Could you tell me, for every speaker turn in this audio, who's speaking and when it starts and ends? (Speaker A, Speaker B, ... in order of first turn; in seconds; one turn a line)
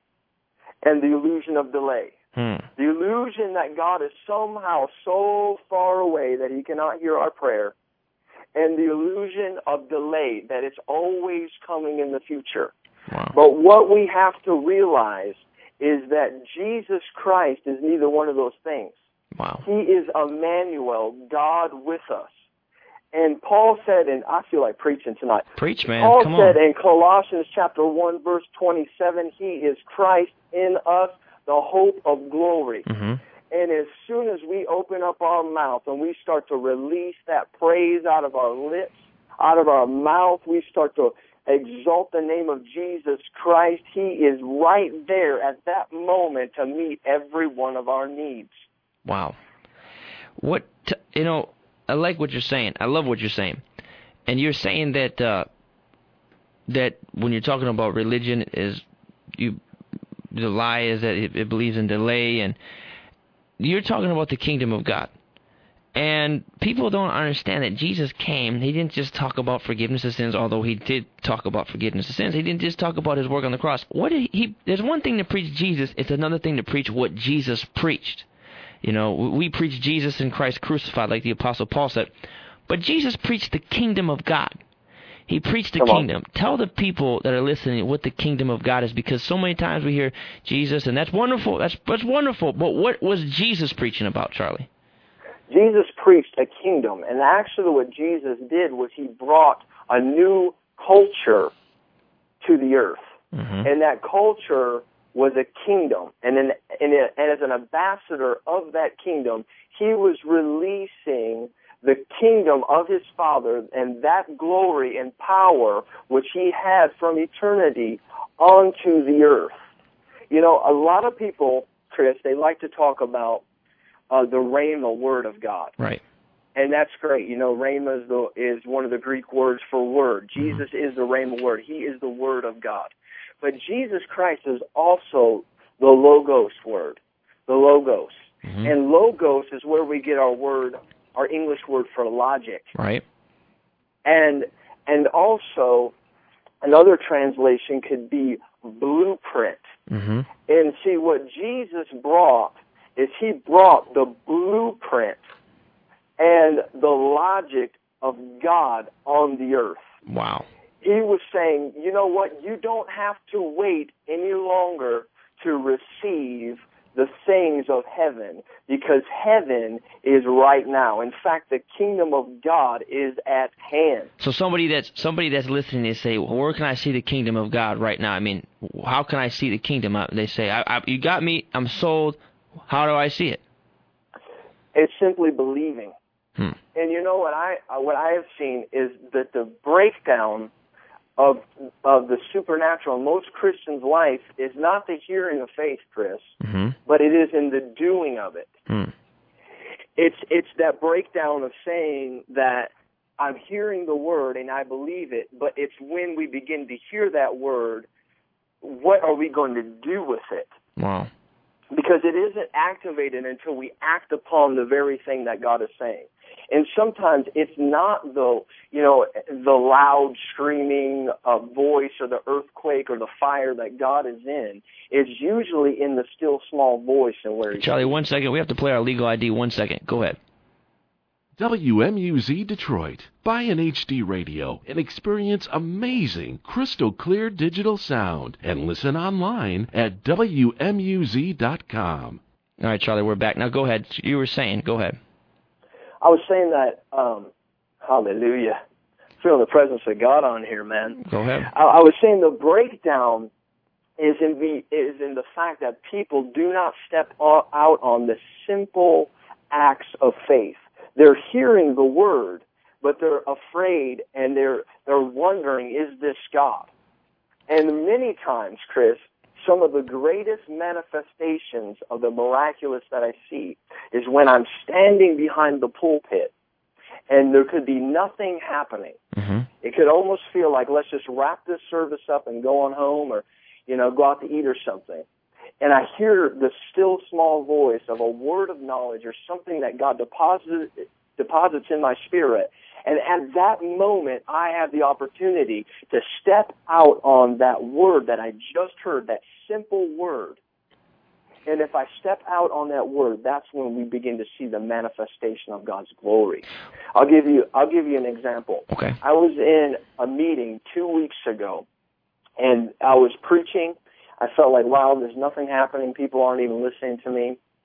Speaker A: 0.8-2.1
Speaker B: 2.4-2.7
Speaker A: 2.8-7.7
Speaker A: 8.5-12.7
Speaker B: 13.1-13.3
Speaker A: 13.3-18.9
Speaker B: 19.4-19.6
Speaker A: 19.6-22.3
Speaker A: 23.1-25.5
Speaker B: 25.6-26.6
Speaker A: 26.0-32.9
Speaker B: 32.9-33.2
Speaker A: 33.5-48.5
Speaker B: 49.1-49.4
Speaker B: 50.4-53.6
Speaker B: 54.3-55.5
Speaker B: 56.7-58.8
Speaker B: 60.3-62.6
Speaker B: 63.6-65.1
Speaker B: 66.0-78.2
Speaker B: 78.8-82.1
Speaker B: 82.7-84.6
Speaker B: 85.3-94.7
Speaker A: 85.8-86.0
Speaker A: 95.5-101.5
Speaker A: 102.4-103.0
Speaker B: 103.3-103.7
Speaker A: 103.6-119.5
Speaker A: 120.3-123.4
Speaker A: 124.1-125.8
Speaker A: 126.6-138.1
Speaker B: 138.4-138.7
Speaker A: 138.6-142.7
Speaker B: 142.8-143.0
Speaker A: 144.1-145.9
Speaker A: 146.6-149.6
Speaker B: 149.9-150.3
Speaker A: 150.5-155.2
Speaker A: 156.2-159.8
Speaker B: 160.1-160.5
Speaker A: 160.8-174.1
Speaker B: 174.2-183.4
Speaker A: 184.7-185.9
Speaker A: 186.8-190.5
Speaker A: 191.2-196.3
Speaker B: 196.4-196.8
Speaker A: 196.9-198.5
Speaker B: 198.7-198.9
Speaker A: 200.0-207.9
Speaker A: 208.6-210.5
Speaker B: 210.8-211.1
Speaker A: 211.7-227.9
Speaker B: 227.5-230.2
Speaker C: 231.4-242.2
Speaker B: 242.6-245.0
Speaker A: 246.0-247.3
Speaker A: 247.8-248.6
Speaker A: 249.2-253.3
Speaker B: 251.0-251.5
Speaker A: 254.0-266.7
Speaker A: 267.5-276.3
Speaker A: 277.1-279.0
Speaker B: 279.1-279.5
Speaker A: 279.6-285.1
Speaker A: 285.6-300.4
Speaker A: 301.4-311.6
Speaker B: 308.7-309.0
Speaker A: 312.4-317.4